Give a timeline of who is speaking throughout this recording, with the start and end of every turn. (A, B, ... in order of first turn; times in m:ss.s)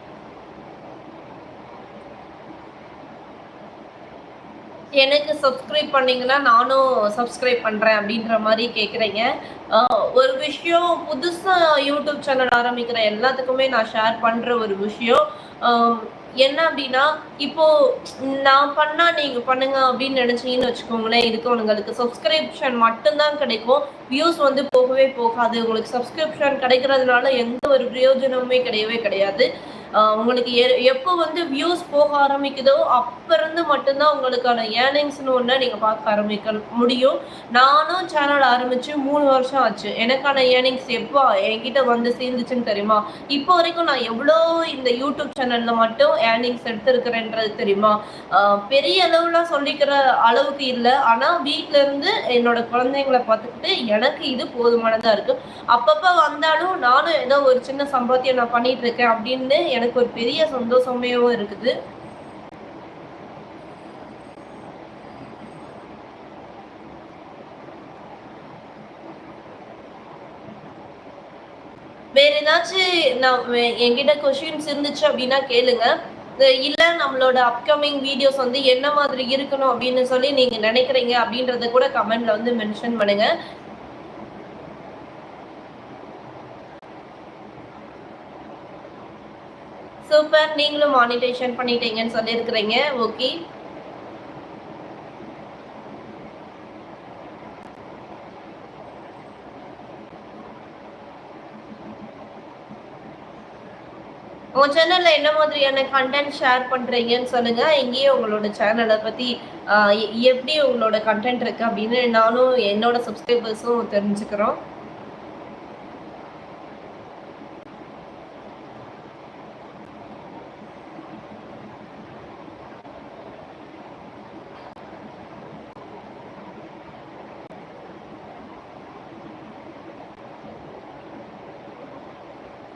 0:05.0-1:01.8 A
1:12.2-1:23.3 A
1:30.1-1:33.4 A
1:44.6-1:54.6 A